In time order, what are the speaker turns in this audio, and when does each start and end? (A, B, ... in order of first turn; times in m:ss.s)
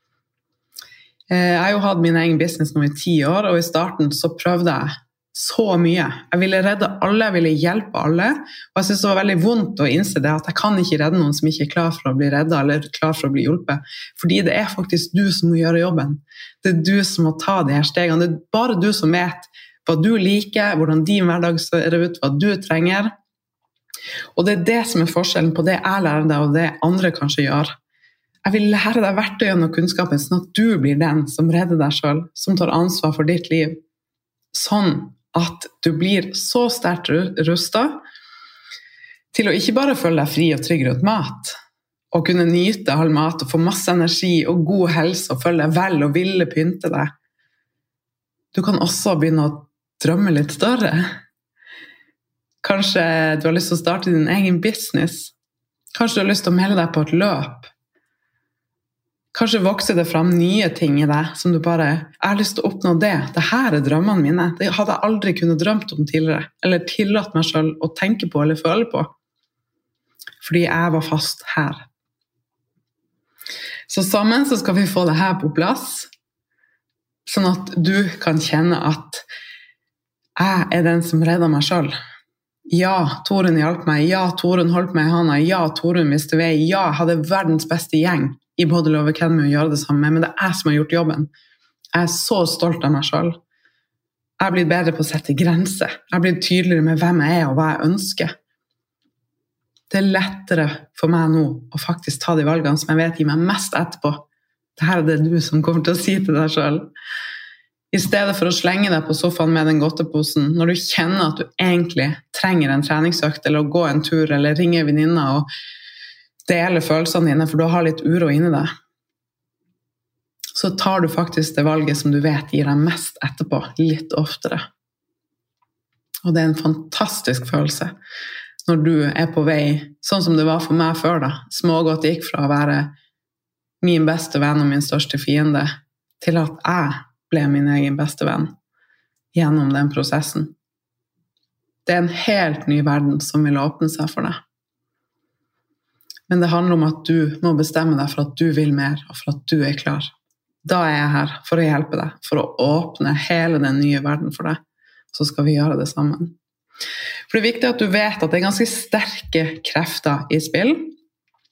0:01.3-0:23.1 A
0:24.4-0:27.7 A
0:28.4-0:33.8 A
0:34.5-0:38.0 A
0:39.3-0:41.6 A
0:42.1-0:47.1 A
0:48.5-0:51.1 A
0:52.6-0:55.3 A
0:55.9-0:57.7 A
0:59.3-1:09.1 A
1:10.4-1:11.9 A
1:13.9-1:16.1 A
1:17.3-1:19.2 A
1:20.4-1:21.9 A
1:22.7-1:31.3 A
1:31.9-1:33.4 A
1:34.4-1:38.3 A
1:39.9-1:44.2 A
1:44.8-1:46.9 A
1:47.9-1:55.5 A
1:56.5-1:58.7 A
2:00.6-2:04.6 A
2:06.2-2:07.9 A
2:08.6-2:12.9 A
2:13.8-2:18.5 A
2:19.3-2:20.5 A
2:21.9-2:24.4 A
2:26.3-2:30.1 A
2:30.6-2:34.6 A
2:35.1-2:36.3 A
2:37.3-2:40.9 A